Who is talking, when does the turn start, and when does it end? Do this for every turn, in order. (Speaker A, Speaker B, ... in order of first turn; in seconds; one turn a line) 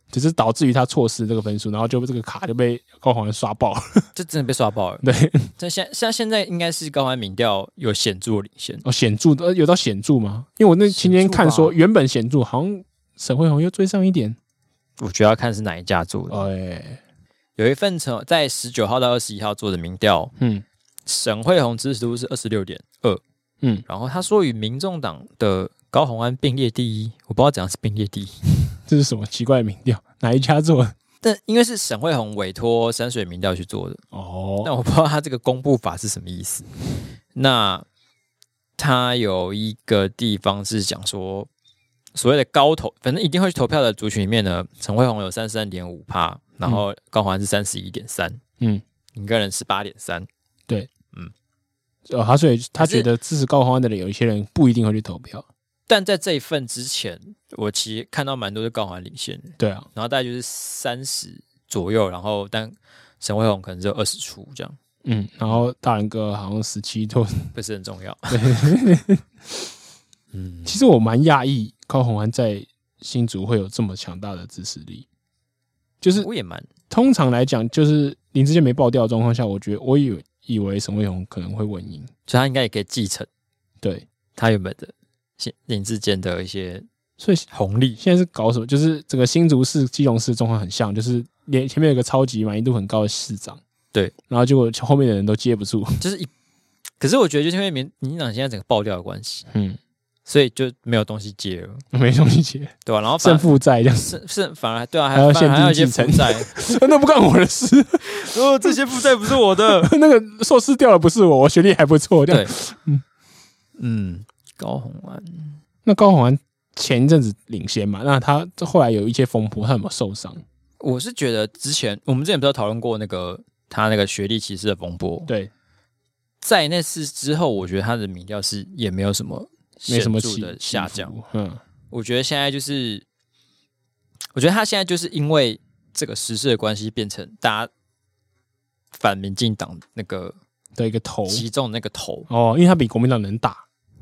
Speaker A: 0.1-4.1
Speaker B: 4.2-5.1
Speaker A: 5.0-5.5
Speaker B: 5.6-8.8
Speaker A: 8.8-14.4
Speaker B: 10.9-11.8
Speaker B: 15.0-16.4
Speaker A: 16.3-17.0
Speaker B: 17.6-20.3
Speaker A: 20.4-20.6
Speaker B: 21.1-23.2
Speaker B: 23.9-28.4
Speaker A: 28.9-30.9
Speaker B: 31.2-34.0
Speaker A: 34.1-34.7
Speaker B: 34.6-36.7
Speaker B: 37.3-37.9
Speaker B: 38.8-41.5
Speaker B: 42.1-48.4
Speaker B: 49.1-50.3
Speaker A: 52.1-55.5
Speaker B: 52.8-53.1
Speaker B: 55.9-64.8
Speaker A: 59.6-59.9
Speaker A: 65.0-67.5
Speaker B: 67.5-68.6
Speaker A: 68.3-69.6
Speaker B: 70.3-70.8
Speaker A: 70.7-75.1
Speaker A: 76.0-76.3
Speaker B: 76.2-76.7
Speaker A: 76.9-82.1
Speaker B: 82.3-83.3
Speaker B: 84.4-86.9
Speaker A: 87.2-87.5
Speaker B: 87.5-88.0
Speaker A: 88.0-93.6
Speaker A: 94.3-96.0
Speaker B: 96.0-96.3
Speaker B: 97.0-99.5
Speaker A: 99.5-99.8
Speaker B: 100.3-101.8
Speaker A: 101.9-104.1
Speaker B: 102.9-106.6
Speaker A: 105.1-108.8
Speaker B: 108.0-109.9
Speaker A: 109.6-113.0
Speaker B: 113.8-115.6
Speaker A: 115.8-120.4
Speaker B: 120.8-125.3
Speaker B: 126.4-131.1
Speaker A: 129.9-131.6
Speaker B: 131.9-133.1
Speaker B: 134.3-137.7
Speaker B: 138.9-140.4
Speaker A: 140.8-141.4
Speaker B: 141.3-142.3
Speaker A: 142.3-143.7